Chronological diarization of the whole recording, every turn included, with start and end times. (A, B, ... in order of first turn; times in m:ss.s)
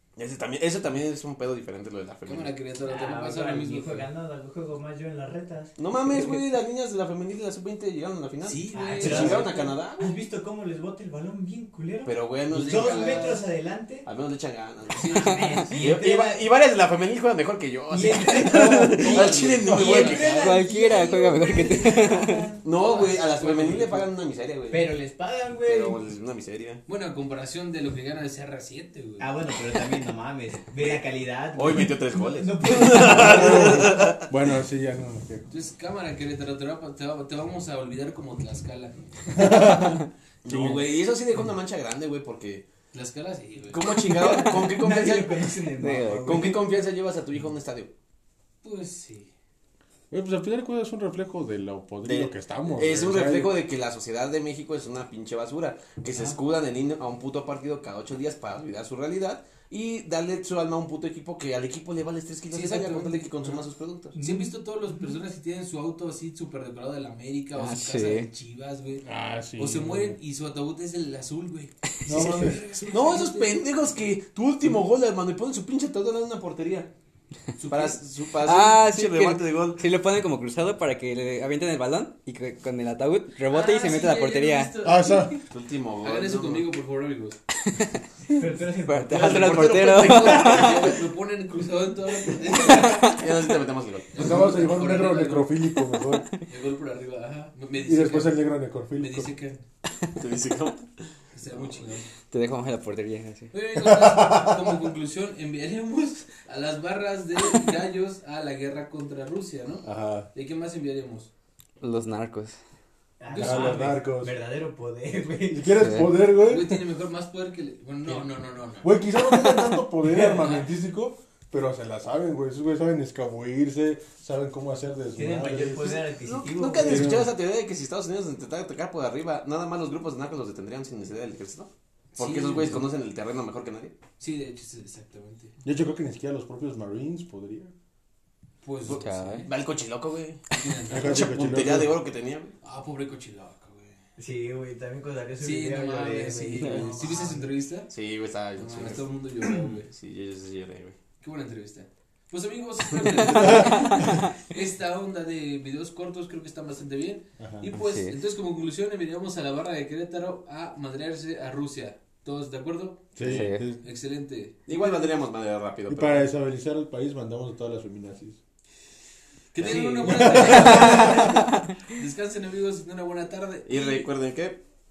0:00.2-0:02.5 A
0:02.3-0:04.1 B
0:02.8-0:05.8 C
0:05.8-0:10.2 A
0:08.4-0:09.5 B
0:08.7-0:14.1 C
0:12.0-0:13.3 A
0:12.5-0:13.4 B
0:14.0-0:20.4 A
0:15.0-0:15.8 B
0:15.1-0:16.5 C
0:17.9-0:22.6 C
0:18.0-0:20.6 B
0:18.6-0:18.8 D
0:20.3-0:22.5 D
0:22.6-0:24.9 A
0:22.8-0:24.1 B
0:24.7-0:26.0 C
0:25.6-0:26.8 A
0:26.9-0:29.4 B
0:29.2-0:34.0 C
0:31.5-0:34.3 A
0:32.9-0:35.5 E
0:35.5-0:39.8 B
0:39.3-0:40.8 E
0:40.4-0:42.7 A
0:42.9-0:44.0 B
0:43.7-0:45.5 A
0:44.1-0:46.7 C
0:45.8-0:46.6 D
0:46.2-0:47.9 A
0:48.6-0:49.3 B
0:50.1-0:53.6 E
0:52.0-1:04.2 A
0:56.1-0:56.4 B
1:02.5-1:03.6 B
1:04.2-1:04.5 C
1:04.2-1:09.0 B
1:07.6-1:08.3 D
1:09.0-1:10.2 E
1:09.6-1:13.6 B
1:12.1-1:12.6 E
1:12.3-1:16.9 A
1:17.6-1:18.0 B
1:17.7-1:19.8 A
1:18.4-1:24.7 D
1:23.5-1:25.4 B
1:24.8-1:25.3 E
1:25.5-1:26.7 A
1:26.0-1:27.4 B
1:27.7-1:28.0 D
1:28.3-1:29.8 C
1:28.8-1:30.9 D
1:29.1-1:31.0 A
1:30.0-1:33.2 B
1:32.5-1:33.3 D
1:33.1-1:34.3 A
1:34.1-1:35.6 B
1:34.2-1:36.3 E
1:36.5-1:39.6 B
1:37.8-1:39.3 E
1:40.2-1:41.9 A
1:41.3-1:42.1 B
1:42.3-1:43.5 D
1:43.5-1:51.3 B
1:43.8-1:44.6 E
1:49.8-1:50.3 E
1:51.8-1:52.6 D
1:53.2-1:55.8 C
1:53.3-1:53.9 B
1:53.4-1:54.4 E
1:55.5-1:56.8 E
1:55.8-1:56.1 D
1:56.4-1:59.0 B
1:58.8-2:06.1 E
1:59.2-1:59.8 A
2:00.1-2:00.5 C
2:00.4-2:00.7 B
2:05.1-2:07.1 C
2:06.1-2:14.0 A
2:06.8-2:07.3 E
2:12.2-2:12.8 B
2:14.2-2:15.5 B
2:15.6-2:17.7 E
2:18.6-2:19.4 B
2:18.8-2:22.5 A
2:18.9-2:19.5 D
2:20.5-2:21.3 B
2:20.9-2:21.9 E
2:22.6-2:24.0 B
2:24.2-2:27.5 C
2:25.4-2:27.9 B
2:27.9-2:29.1 A
2:28.5-2:29.9 B
2:29.9-2:31.0 A
2:31.2-2:45.2 B
2:33.0-2:33.6 A
2:37.4-2:37.7 E
2:37.7-2:38.2 D
2:43.2-2:43.8 E
2:43.2-2:43.7 D
2:44.7-2:46.3 A
2:45.9-2:48.4 E
2:49.5-2:54.1 B
2:49.6-2:51.2 A
2:50.1-2:51.3 E
2:50.7-2:51.7 D
2:53.7-2:54.6 A